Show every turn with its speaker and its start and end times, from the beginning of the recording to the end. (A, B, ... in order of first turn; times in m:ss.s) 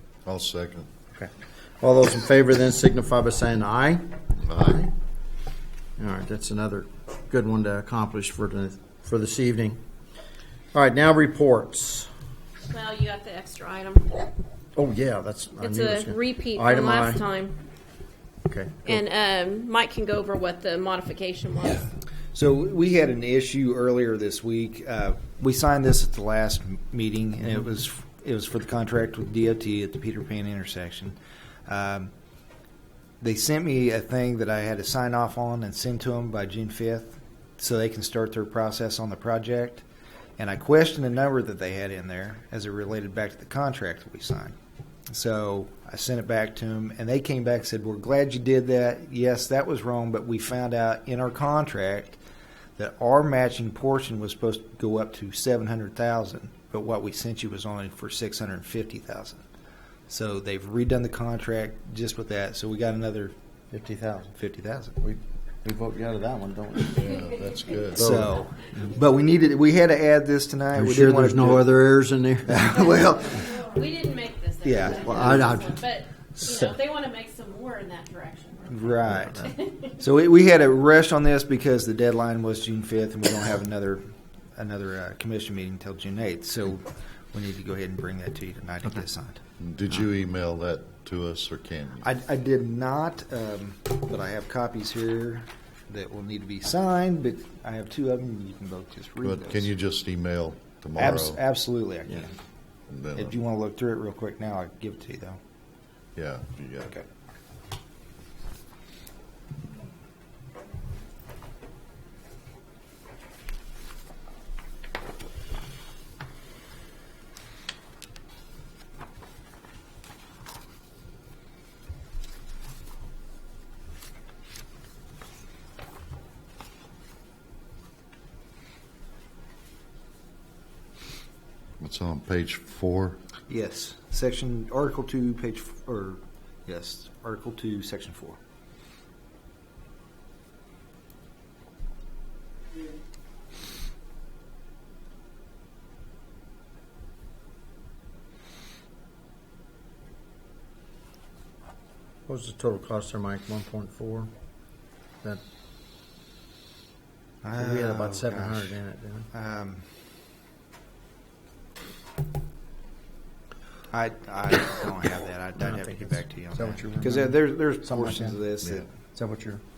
0:00.3-0:00.9 A
0:01.1-0:04.2 B
0:04.4-0:04.9 A
0:06.0-0:09.8 B
0:10.7-0:12.1 B
0:12.7-0:14.3 C
0:14.8-0:17.2 B
0:15.6-0:17.6 C
0:18.5-0:19.0 B
0:18.8-0:21.9 C
0:22.3-0:32.1 D
0:33.2-0:39.8 D
0:40.4-0:44.6 D
0:45.1-0:52.2 D
0:52.8-0:59.4 D
1:00.1-1:03.3 D
1:03.7-1:04.4 B
1:04.4-1:05.0 D
1:05.0-1:07.3 B
1:07.0-1:08.2 A
1:07.9-1:11.7 D
1:08.0-1:08.3 B
1:10.7-1:12.8 B
1:12.5-1:13.6 D
1:13.4-1:18.9 C
1:14.6-1:15.6 D
1:14.9-1:15.8 B
1:16.4-1:16.7 B
1:18.7-1:29.4 D
1:19.4-1:19.9 C
1:29.6-1:32.1 A
1:32.0-1:39.7 D
1:39.2-1:41.4 A
1:41.0-1:42.3 D
1:42.9-1:43.4 A
1:43.2-1:45.4 D
1:46.2-1:46.9 A
2:11.8-2:13.2 A
2:13.5-2:18.4 D
2:32.3-2:34.3 B
2:37.4-2:38.8 D
2:37.6-2:39.3 B
2:39.3-2:39.8 D
2:43.9-2:48.9 D
2:45.6-2:48.4 B
2:49.1-2:49.6 B